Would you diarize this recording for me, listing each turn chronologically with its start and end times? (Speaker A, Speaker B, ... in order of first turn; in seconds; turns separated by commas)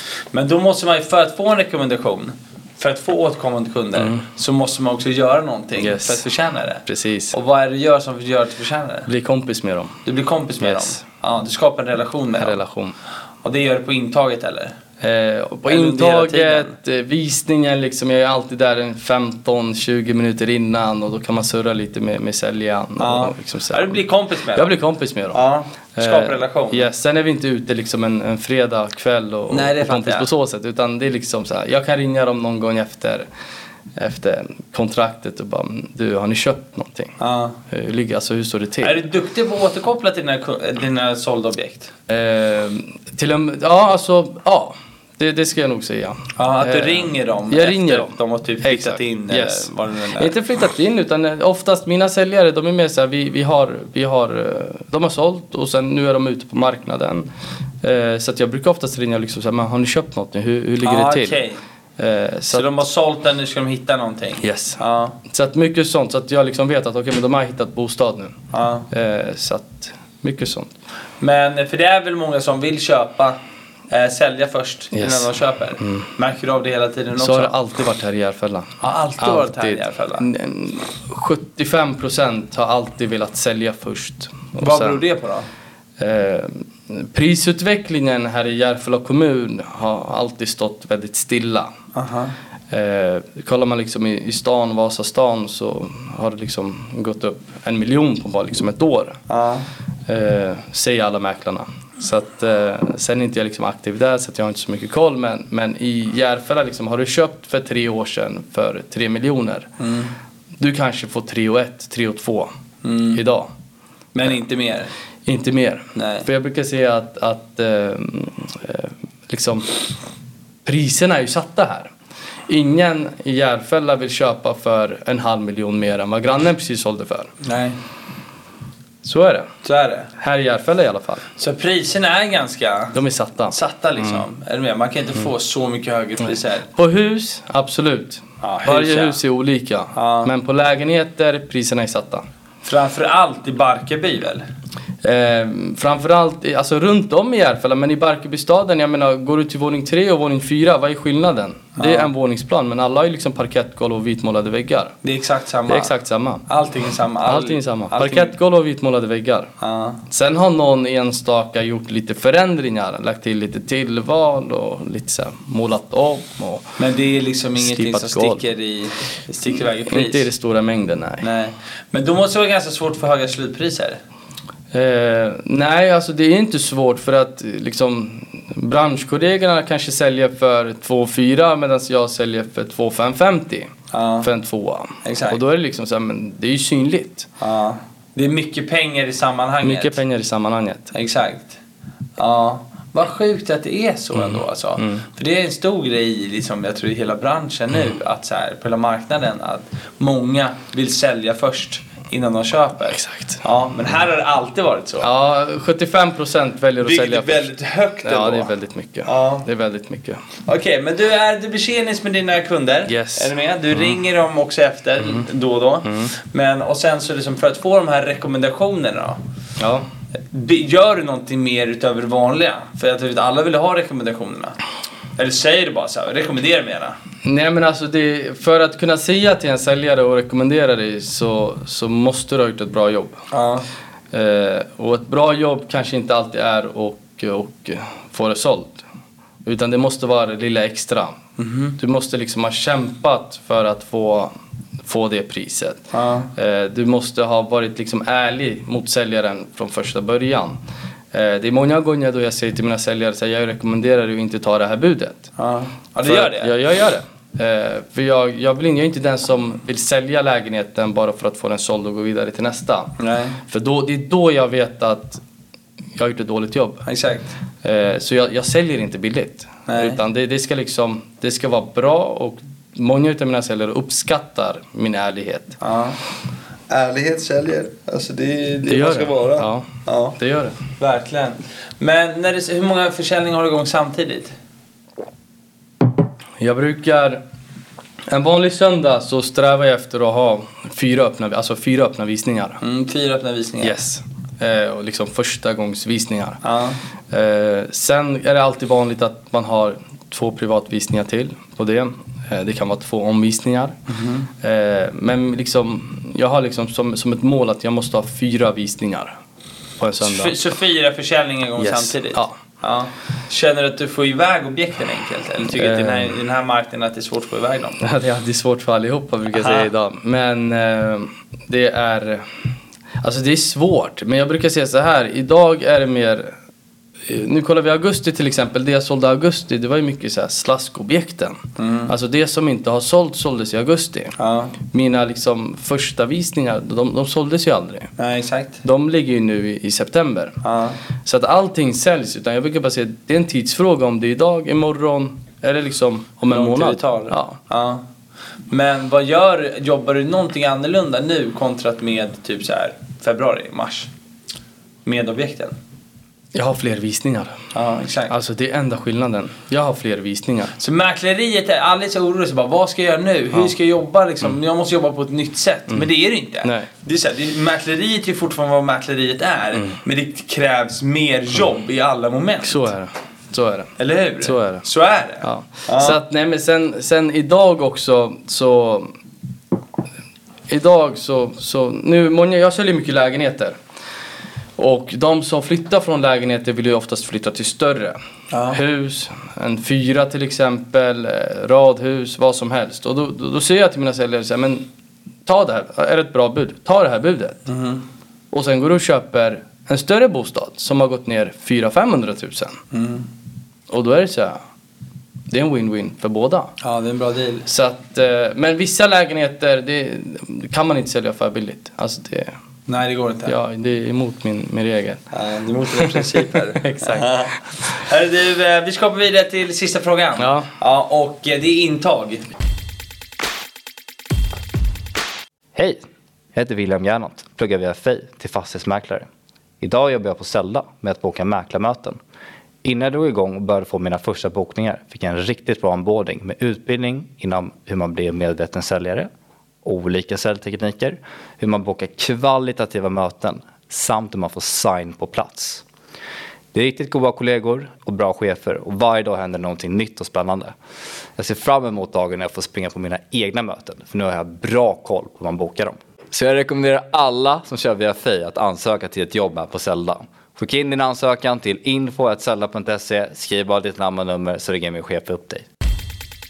Speaker A: 0.3-9.1, Speaker B: 4.0-4.2, Speaker B: 5.8-6.2, Speaker B: 6.8-7.3, Speaker B: 9.1-10.0, Speaker A: 10.0-12.6, Speaker B: 10.6-11.0, Speaker B: 12.4-12.9, Speaker A: 13.4-14.8, Speaker B: 15.0-24.0, Speaker A: 15.7-16.7, Speaker A: 23.0-24.7, Speaker B: 24.5-25.4, Speaker A: 25.3-26.9, Speaker B: 25.9-33.3, Speaker A: 29.5-30.3, Speaker B: 34.0-37.1, Speaker A: 37.2-37.6, Speaker B: 37.7-39.0, Speaker A: 38.8-41.9, Speaker B: 42.1-57.3, Speaker A: 46.4-50.3, Speaker B: 57.8-61.4, Speaker A: 60.8-61.6, Speaker B: 62.0-62.8, Speaker A: 62.5-65.2, Speaker B: 64.4-68.3, Speaker A: 68.5-68.9, Speaker B: 68.9-70.7, Speaker A: 71.2-73.4, Speaker A: 73.9-77.5, Speaker B: 74.9-75.3, Speaker B: 77.2-85.0, Speaker A: 78.8-80.3, Speaker A: 84.6-85.5, Speaker B: 86.0-91.7, Speaker A: 91.9-92.3, Speaker B: 92.7-99.2, Speaker A: 99.3-99.7, Speaker B: 100.1-109.7, Speaker A: 109.8-110.1, Speaker B: 110.6-112.5, Speaker A: 112.8-113.2, Speaker B: 113.1-113.5, Speaker A: 114.1-114.9, Speaker B: 115.2-119.7, Speaker A: 115.9-116.3, Speaker B: 120.6-121.9, Speaker B: 122.5-127.3, Speaker A: 127.4-127.8, Speaker B: 129.0-129.5, Speaker A: 129.6-130.1, Speaker B: 130.2-131.2, Speaker A: 131.4-136.7, Speaker B: 132.9-134.2, Speaker B: 136.7-142.2, Speaker A: 138.4-139.2, Speaker A: 139.9-140.3, Speaker A: 142.6-144.4, Speaker B: 145.0-154.9, Speaker A: 151.8-152.1, Speaker A: 155.0-155.9, Speaker B: 155.7-156.4, Speaker A: 156.5-158.3, Speaker B: 157.2-159.5, Speaker A: 159.6-160.0, Speaker B: 160.1-166.7, Speaker A: 166.8-170.3, Speaker B: 167.6-168.4, Speaker B: 169.8-171.2, Speaker A: 171.2-174.0, Speaker B: 174.7-187.3, Speaker A: 183.9-184.3, Speaker A: 185.0-185.4, Speaker A: 187.4-190.0, Speaker B: 189.6-190.9, Speaker A: 190.9-191.6, Speaker A: 192.2-205.1, Speaker B: 194.2-195.0, Speaker B: 202.9-203.4, Speaker B: 205.0-207.5, Speaker A: 206.8-208.5, Speaker B: 208.0-210.2, Speaker A: 209.1-209.5, Speaker A: 210.4-219.2, Speaker B: 212.9-213.3, Speaker B: 219.6-219.9, Speaker A: 220.3-224.6, Speaker A: 225.2-226.9, Speaker B: 227.2-233.2, Speaker A: 233.3-233.7, Speaker B: 234.1-238.8, Speaker B: 239.4-241.2, Speaker A: 241.4-241.8, Speaker B: 241.8-244.3, Speaker B: 244.8-250.6, Speaker A: 245.9-246.3, Speaker B: 251.1-255.3, Speaker A: 255.4-256.5, Speaker B: 256.0-262.9, Speaker A: 263.0-263.4, Speaker B: 263.5-265.2, Speaker B: 265.9-266.8, Speaker A: 266.8-267.3, Speaker B: 267.6-275.6, Speaker A: 269.7-270.0, Speaker A: 275.6-276.0, Speaker A: 276.7-280.2, Speaker B: 278.6-280.6, Speaker A: 280.8-284.3, Speaker B: 286.4-287.2, Speaker B: 288.1-292.6, Speaker A: 292.6-293.8, Speaker B: 293.6-296.4, Speaker A: 296.4-296.8, Speaker B: 297.1-303.8, Speaker A: 303.9-304.3, Speaker B: 304.4-309.2, Speaker B: 309.8-310.4, Speaker A: 310.0-317.8, Speaker B: 311.6-312.4, Speaker B: 315.5-316.1, Speaker B: 317.8-322.2, Speaker A: 319.3-319.7, Speaker B: 323.0-326.3, Speaker B: 327.0-334.1, Speaker A: 331.6-331.9, Speaker A: 334.2-334.6, Speaker B: 334.7-337.9, Speaker A: 338.0-338.6, Speaker B: 338.6-340.4, Speaker A: 340.4-340.8, Speaker B: 341.0-347.4, Speaker A: 346.3-347.8, Speaker A: 348.5-353.9, Speaker A: 354.8-355.6, Speaker B: 356.3-357.4, Speaker A: 357.5-358.1, Speaker B: 358.1-360.5, Speaker A: 360.6-372.7, Speaker B: 366.4-366.7, Speaker B: 372.4-374.6, Speaker A: 373.8-376.0, Speaker B: 375.2-378.9, Speaker B: 380.5-383.6, Speaker B: 384.6-388.0, Speaker A: 388.3-388.6, Speaker B: 388.5-394.6, Speaker B: 395.2-397.4, Speaker A: 397.5-397.8, Speaker B: 398.3-402.6, Speaker A: 402.7-403.1, Speaker B: 403.7-404.4, Speaker B: 405.3-406.5, Speaker A: 406.6-407.5, Speaker B: 407.4-412.3, Speaker A: 412.7-413.3, Speaker B: 413.3-415.0, Speaker A: 415.1-422.2, Speaker B: 415.8-417.2, Speaker B: 420.2-420.5, Speaker C: 425.5-425.8, Speaker C: 426.3-429.1, Speaker C: 429.6-432.0, Speaker C: 432.6-439.1, Speaker C: 439.6-445.6, Speaker C: 446.5-450.5, Speaker C: 451.2-465.4